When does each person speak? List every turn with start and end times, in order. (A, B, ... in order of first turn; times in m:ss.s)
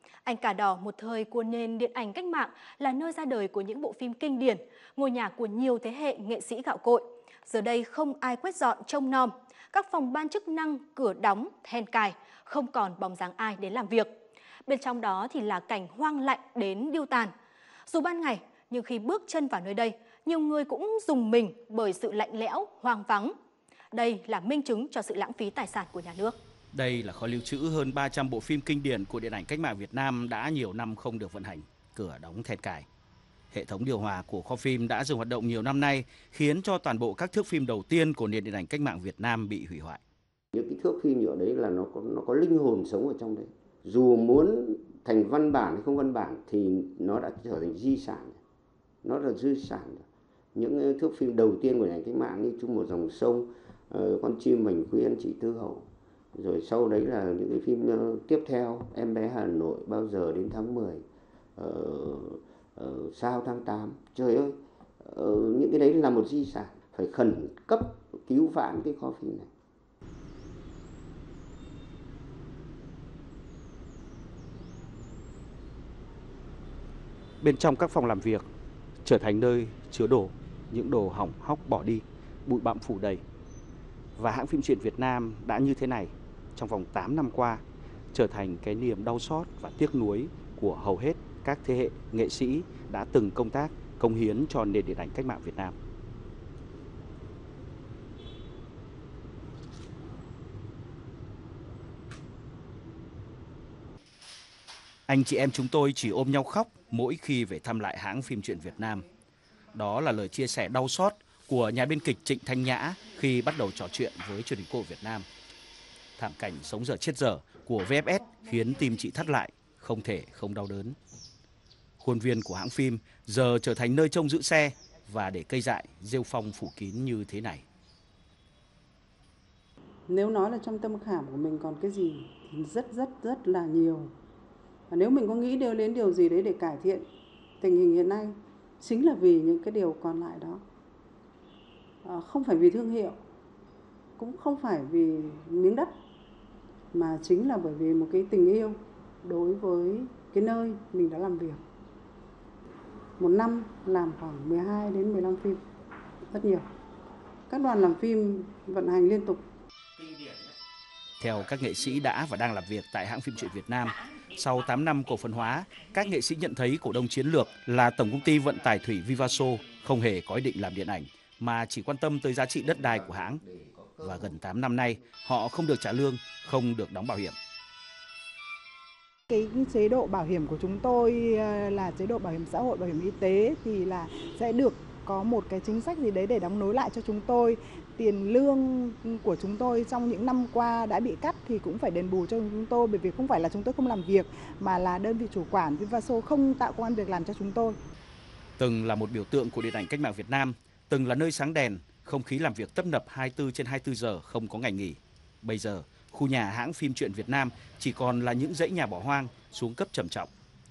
0:00.2-0:14.1 A
0:14.7-0:17.3 A
0:17.9-0:23.3 A
0:23.9-0:26.4 A
0:26.7-0:32.8 B
0:33.5-0:40.0 B
0:40.5-0:48.4 C
0:49.0-1:01.0 C
1:01.6-1:09.5 C
1:17.4-1:18.4 B
1:19.0-1:23.2 B
1:24.2-1:35.8 B
1:45.1-1:49.0 B
1:49.7-1:55.3 B
1:56.2-2:01.0 B
2:02.0-2:07.6 B
2:10.1-2:14.1 D
2:14.9-2:17.0 D
2:17.6-2:20.6 D
2:22.0-2:23.1 D
2:24.2-2:25.9 D
2:26.9-2:31.6 D
2:33.2-2:35.6 D
2:36.3-2:36.6 D
2:37.5-2:39.4 D
2:41.2-2:53.4 B
2:52.6-2:54.3 C
2:54.0-2:57.4 B
2:59.3-3:17.8 E
3:18.6-3:30.3 B